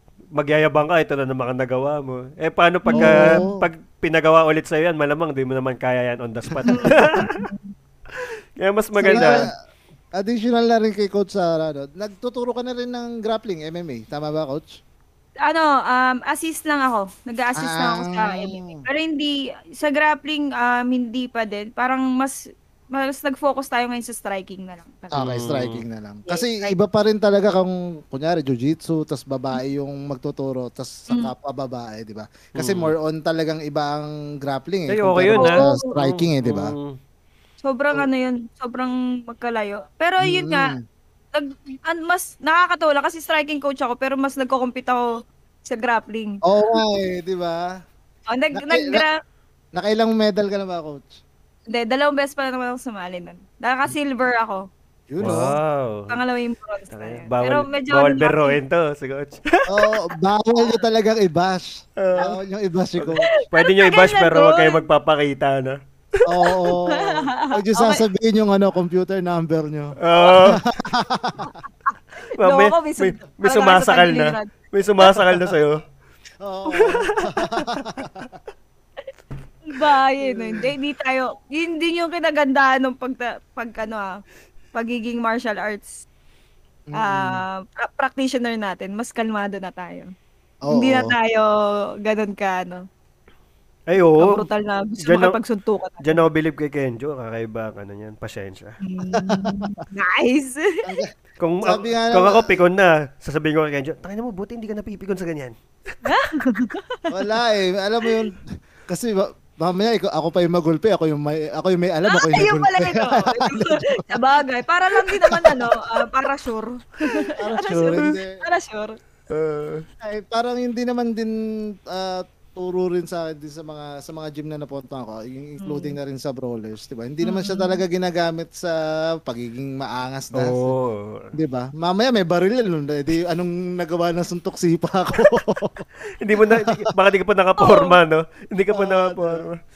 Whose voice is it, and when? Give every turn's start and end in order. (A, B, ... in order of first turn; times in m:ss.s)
0:00.4-0:07.4 A
0:02.9-0:03.4 B
0:03.0-0:03.7 C
0:06.5-0:07.3 C
0:06.7-0:07.7 B
0:08.2-0:09.5 A
0:09.0-0:09.5 B
0:09.0-0:09.5 C
0:10.2-0:14.8 C
0:15.4-0:22.4 B
0:17.6-0:18.8 C
0:22.9-0:25.4 B
0:25.1-0:36.8 C
0:25.2-0:25.8 A
0:26.3-0:26.7 B
0:32.6-0:32.9 A
0:34.9-0:37.0 A
0:35.4-0:35.8 B
0:37.6-0:40.8 B
0:40.2-0:40.8 C
0:41.3-0:46.8 B
0:46.5-0:47.7 C
0:48.3-0:49.1 B
0:48.6-0:49.0 C
0:49.7-0:51.2 C
0:51.7-0:54.7 B
0:55.1-0:55.6 C
0:55.2-0:56.2 A
0:56.1-0:58.6 B
0:56.9-0:59.9 A
0:59.7-1:03.3 C
1:02.0-1:02.4 A
1:03.0-1:05.8 A
1:03.4-1:04.8 B
1:06.3-1:11.5 C
1:06.9-1:08.0 B
1:10.0-1:10.6 A
1:12.4-1:15.8 A
1:12.4-1:14.5 B
1:16.4-1:18.3 C
1:17.4-1:17.9 A
1:19.7-1:24.2 B
1:20.2-1:20.7 C
1:24.8-1:26.0 B
1:26.9-1:27.4 C
1:27.0-1:30.1 B
1:30.7-1:31.2 C
1:30.7-1:32.8 B
1:33.9-1:34.5 A
1:34.0-1:36.3 B
1:35.0-1:35.4 A
1:36.0-1:38.8 A
1:38.8-1:40.8 B
1:39.1-1:39.8 C
1:40.8-1:41.1 C
1:41.4-1:46.0 A
1:41.6-1:42.6 C
1:46.0-1:47.0 B
1:47.1-1:54.2 C
1:52.1-1:59.0 B
1:55.0-1:55.7 C
1:57.4-1:58.4 C
1:57.7-1:58.2 A
1:59.3-1:59.8 A
2:00.0-2:01.3 C
2:01.9-2:10.7 C
2:05.6-2:06.0 B
2:07.2-2:07.8 B
2:10.3-2:11.3 A
2:11.3-2:15.8 C
2:16.2-2:19.6 A
2:16.4-2:16.8 C
2:17.6-2:18.0 B
2:18.7-2:19.4 C